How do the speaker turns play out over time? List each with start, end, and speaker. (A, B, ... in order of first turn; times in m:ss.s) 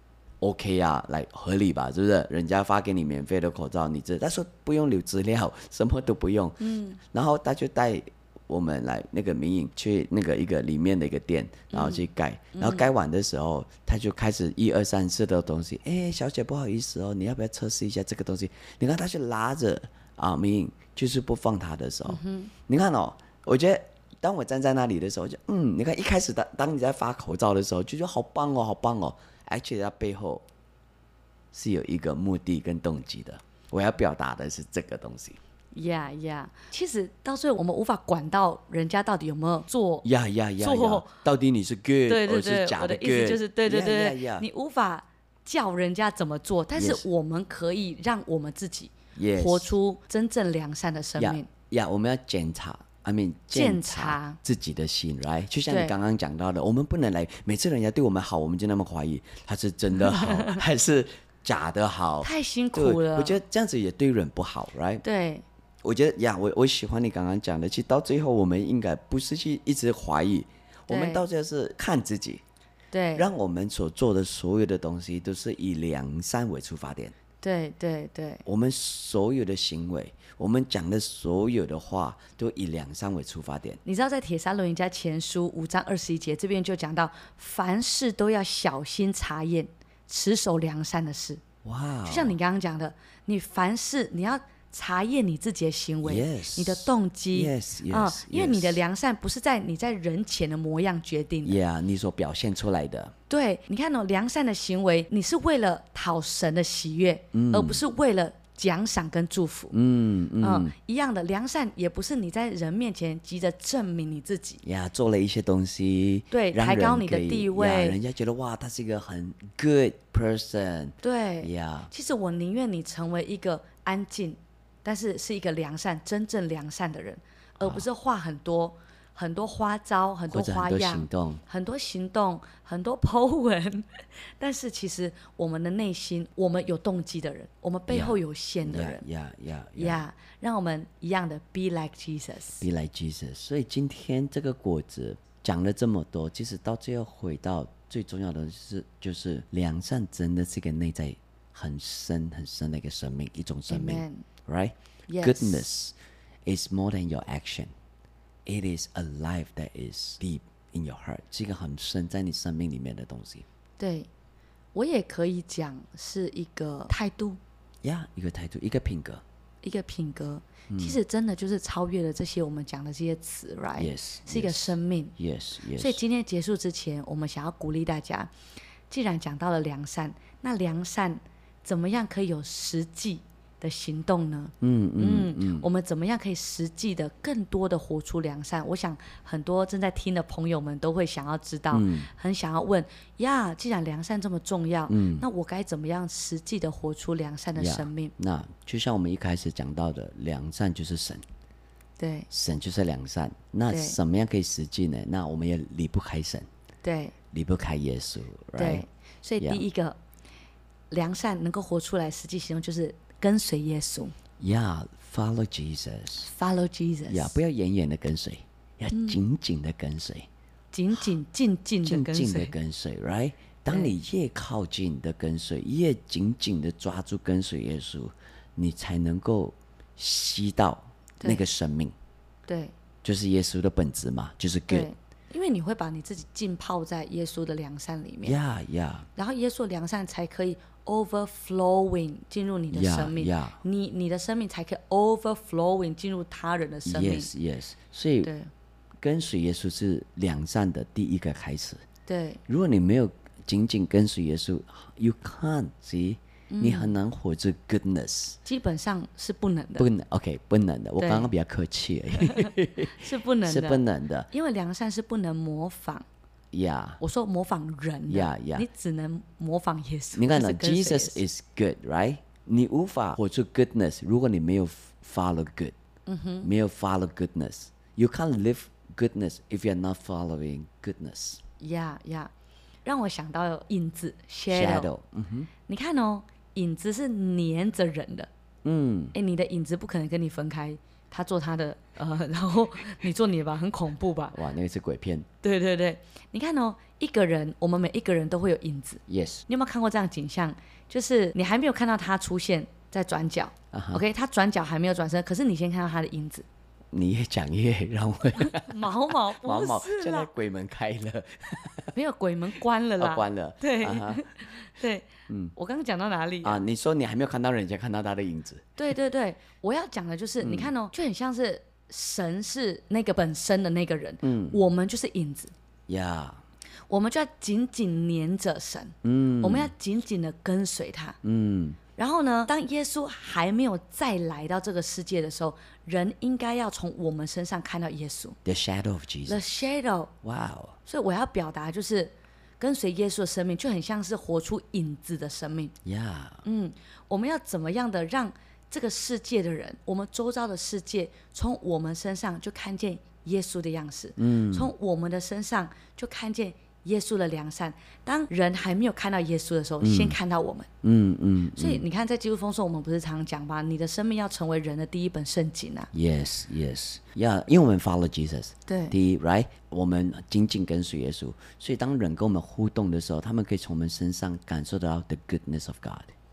0:00.4-0:30.4 A
0:06.6-0:07.0 B
0:11.7-0:12.9 B
0:22.1-0:22.5 B
0:31.5-0:35.4 A
0:35.7-0:40.0 B
0:40.0-0:44.5 A
0:40.6-0:41.2 B
0:42.1-0:51.5 B
0:46.8-0:47.0 A
0:49.2-0:49.7 A
0:51.2-1:05.0 A
0:53.5-0:54.4 B
0:55.7-0:56.0 B
1:00.0-1:00.6 B
1:02.2-1:03.4 B
1:05.0-1:05.4 B
1:05.8-1:12.4 A
1:10.9-1:11.2 B
1:12.9-1:13.3 B
1:13.2-1:17.2 A
1:17.4-1:18.4 B
1:18.4-1:23.8 A
1:23.8-1:31.4 B
1:31.6-1:32.4 A
1:32.1-1:41.6 B
1:36.0-1:38.8 A
1:41.4-1:43.1 A
1:43.3-1:49.8 B
1:47.3-1:47.8 A
1:49.7-1:50.8 A
1:50.4-1:54.6 B
1:54.6-2:01.9 A
1:56.3-1:58.0 B
2:01.0-2:19.0 B
2:07.6-2:07.9 A
2:10.3-2:11.4 A
2:17.9-2:20.0 A
2:19.8-2:22.7 B
2:22.6-2:36.0 A
2:33.7-2:34.3 B
2:35.1-2:35.7 B
2:36.5-2:37.7 A
2:38.5-2:43.4 A
2:43.8-2:44.1 B
2:44.7-2:47.4 B
2:47.8-2:49.2 A
2:49.6-2:55.2 B
2:50.7-2:51.0 A
2:53.8-2:56.0 A
2:55.8-2:58.3 B
2:58.9-3:18.1 B
3:04.6-3:05.7 A
3:11.7-3:12.1 A
3:14.9-3:15.3 A
3:17.6-3:21.2 A
3:22.0-3:22.3 B
3:22.3-3:26.5 A
3:23.7-3:24.0 B
3:26.8-3:27.2 B
3:27.3-3:28.8 A
3:28.6-3:30.0 B
3:30.9-3:34.1 B
3:34.4-3:36.3 A
3:36.2-3:37.4 B
3:37.1-3:40.3 A
3:38.9-3:39.2 B
3:40.7-3:42.5 B
3:41.8-3:52.0 A
3:43.7-3:43.9 B
3:52.5-3:52.8 B
3:53.0-3:54.9 A
3:54.7-3:58.4 B
3:58.2-3:59.1 A
3:59.2-4:07.3 B
4:02.7-4:03.6 A
4:06.8-4:08.3 A
4:08.2-4:08.5 B
4:09.0-4:11.8 A
4:12.1-4:12.4 B
4:12.5-4:18.4 A
4:16.5-4:17.0 B
4:18.4-4:19.9 B
4:19.8-4:24.3 A
4:21.0-4:21.3 B
4:22.2-4:26.1 B
4:26.5-4:27.0 A
4:27.0-4:31.2 B
4:28.1-4:28.7 A
4:30.2-4:35.7 A
4:36.1-4:36.5 B
4:36.4-4:41.4 A
4:41.6-4:42.3 B
4:42.8-4:44.9 B
4:44.5-4:45.5 A
4:45.7-4:48.3 B
4:48.6-4:49.2 A
4:49.1-4:54.4 B
4:54.3-4:55.3 A
4:55.4-5:06.5 B
4:59.1-4:59.5 A
5:03.7-5:04.0 A
5:06.9-5:12.0 A
5:08.4-5:10.3 B
5:12.0-5:16.6 B
5:13.0-5:14.3 A
5:15.3-5:15.5 A
5:16.4-5:18.7 A
5:18.8-5:25.5 B
5:20.4-5:20.7 A
5:24.2-5:24.6 A
5:25.9-5:26.4 A
5:26.9-5:31.2 B
5:29.0-5:29.7 A
5:31.2-5:31.8 A
5:32.0-5:38.4 B
5:38.4-5:39.4 A
5:39.3-5:40.1 B
5:40.2-5:40.8 A
5:40.9-5:45.7 B
5:45.8-5:46.4 A
5:46.4-6:00.7 B
5:54.2-5:54.7 A
5:59.8-6:00.2 A
6:00.8-6:01.8 A
6:01.6-6:05.9 B
6:05.9-6:16.1 A
6:08.7-6:09.0 B